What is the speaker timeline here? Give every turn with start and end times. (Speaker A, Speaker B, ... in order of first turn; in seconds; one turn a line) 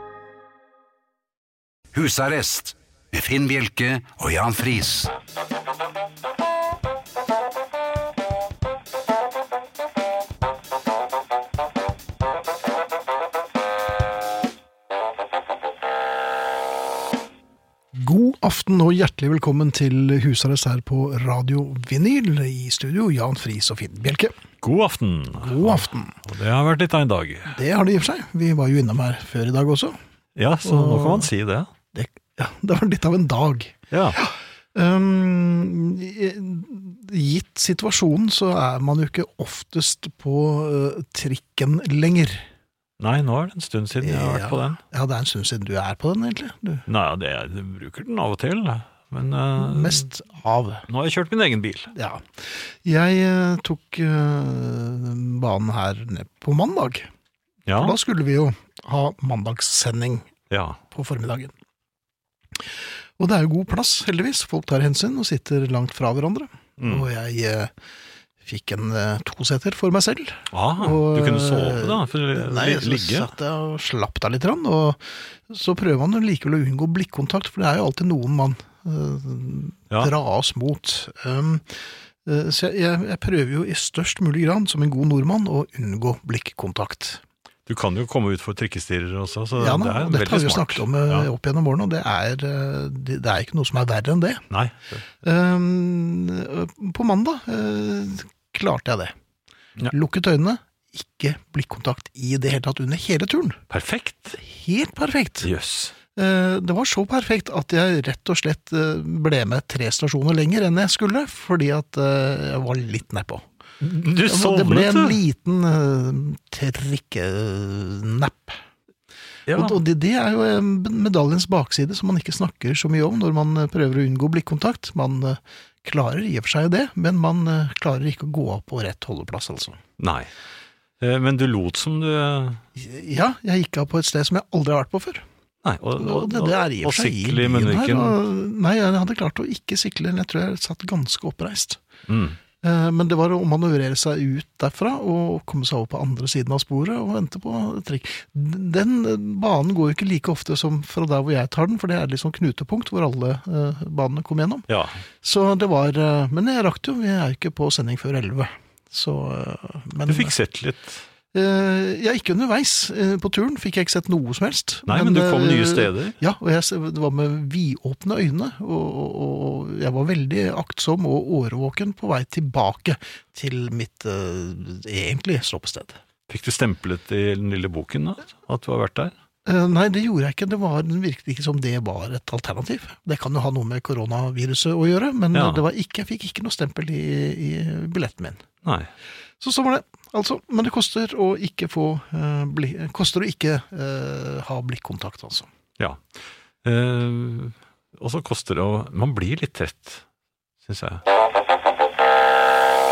Speaker A: 1.9-5.1
Speaker B: 17.9-24.4
Speaker C: 24.6-27.6
Speaker B: 25.4-26.2
Speaker B: 27.5-30.0
Speaker C: 30.4-31.7
Speaker B: 30.6-31.3
Speaker B: 31.9-42.5
Speaker C: 33.9-34.2
Speaker C: 43.0-44.8
Speaker B: 44.0-46.9
Speaker C: 46.9-50.1
Speaker B: 49.6-50.9
Speaker C: 50.9-51.9
Speaker B: 51.9-57.1
Speaker C: 57.7-58.0
Speaker B: 57.8-60.3
Speaker C: 60.5-60.8
Speaker B: 60.9-61.5
Speaker B: 62.6-67.7
Speaker C: 66.8-67.0
Speaker B: 68.4-81.7
Speaker C: 70.5-73.3
Speaker B: 82.2-87.2
Speaker C: 87.7-91.3
Speaker B: 89.6-94.4
Speaker C: 94.5-95.0
Speaker B: 95.2-99.1
Speaker B: 99.9-103.6
Speaker C: 103.7-104.4
Speaker B: 104.4-105.5
Speaker C: 105.4-105.9
Speaker B: 106.2-113.5
Speaker C: 113.8-115.2
Speaker B: 114.2-118.6
Speaker C: 119.5-119.8
Speaker B: 119.5-129.8
Speaker C: 130.0-130.3
Speaker C: 131.0-132.6
Speaker B: 132.8-135.2
Speaker C: 135.6-138.2
Speaker B: 136.0-141.8
Speaker C: 142.1-142.4
Speaker B: 142.6-154.7
Speaker C: 154.7-155.0
Speaker B: 155.2-160.3
Speaker C: 160.1-161.0
Speaker B: 161.3-176.0
Speaker C: 164.9-166.2
Speaker C: 176.3-179.1
Speaker B: 179.5-188.4
Speaker C: 185.3-185.6
Speaker C: 188.6-188.9
Speaker B: 189.4-195.5
Speaker C: 195.8-196.1
Speaker C: 196.6-200.1
Speaker C: 200.6-201.0